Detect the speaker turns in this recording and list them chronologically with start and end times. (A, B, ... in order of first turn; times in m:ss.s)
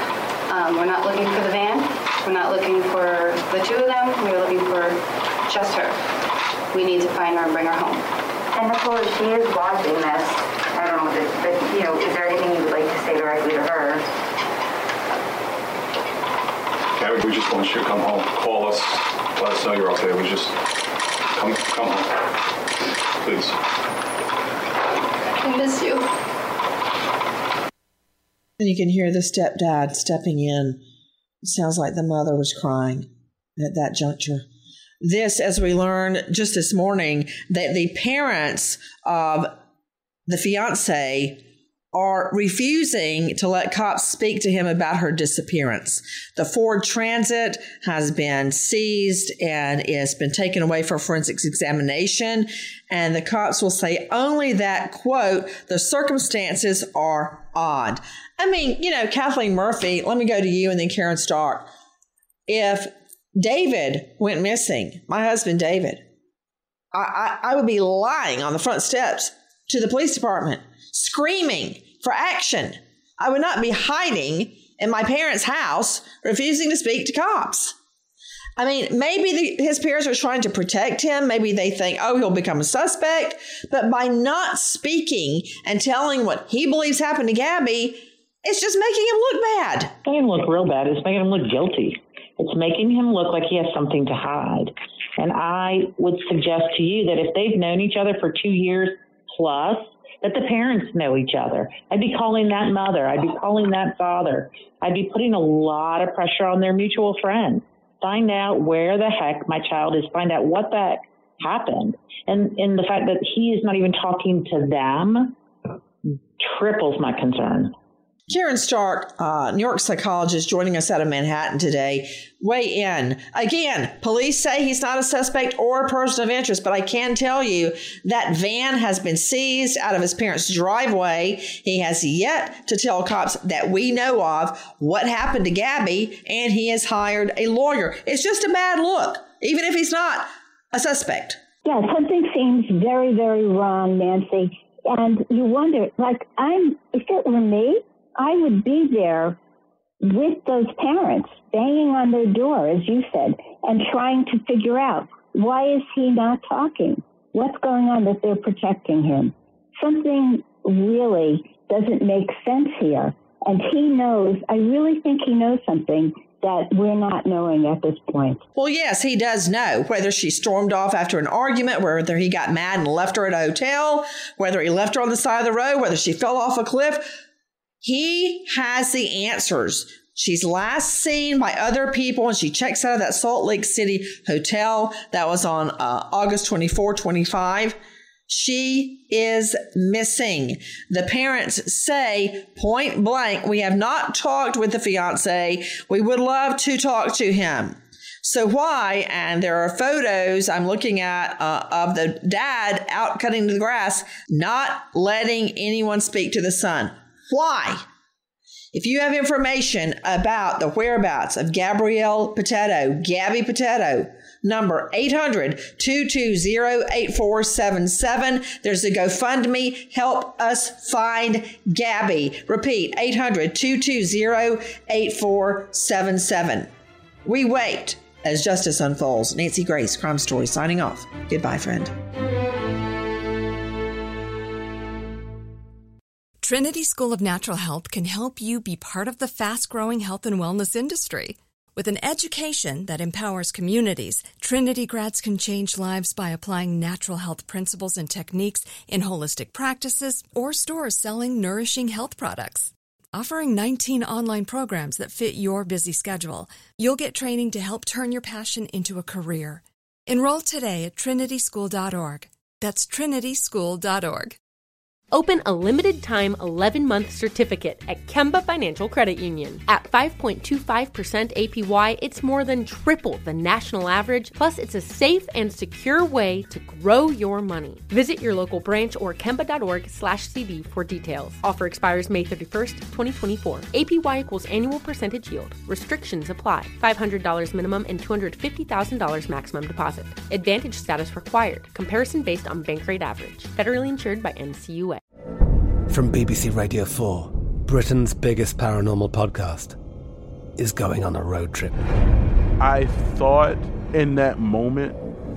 0:00.5-0:06.0 A
0:06.7-0:08.0 A
0:08.5-0:14.1 B
0:17.0-0:20.6 C
0:21.4-0:22.2 C
0:23.2-0:23.6 C
0:25.4-0:26.1 A
0:28.6-0:30.8 D
0:31.4-0:34.4 D
0:35.0-0:39.5 D
0:40.3-0:41.4 D
0:41.9-1:01.7 D
1:02.5-1:06.0 D
1:06.9-1:17.7 D
1:18.6-1:29.9 D
1:30.0-1:55.4 E
1:56.4-1:57.7 E
1:58.3-2:21.4 D
2:21.6-2:29.4 F
2:30.0-2:48.4 F
2:48.6-2:57.1 D
2:57.8-3:07.8 D
3:08.3-3:27.8 D
3:28.7-3:46.7 D
3:47.2-3:51.9 D
3:56.4-4:24.4 G
4:25.1-4:55.0 H
4:55.9-4:59.8 I
5:00.6-5:01.8 I
5:02.6-5:05.0 J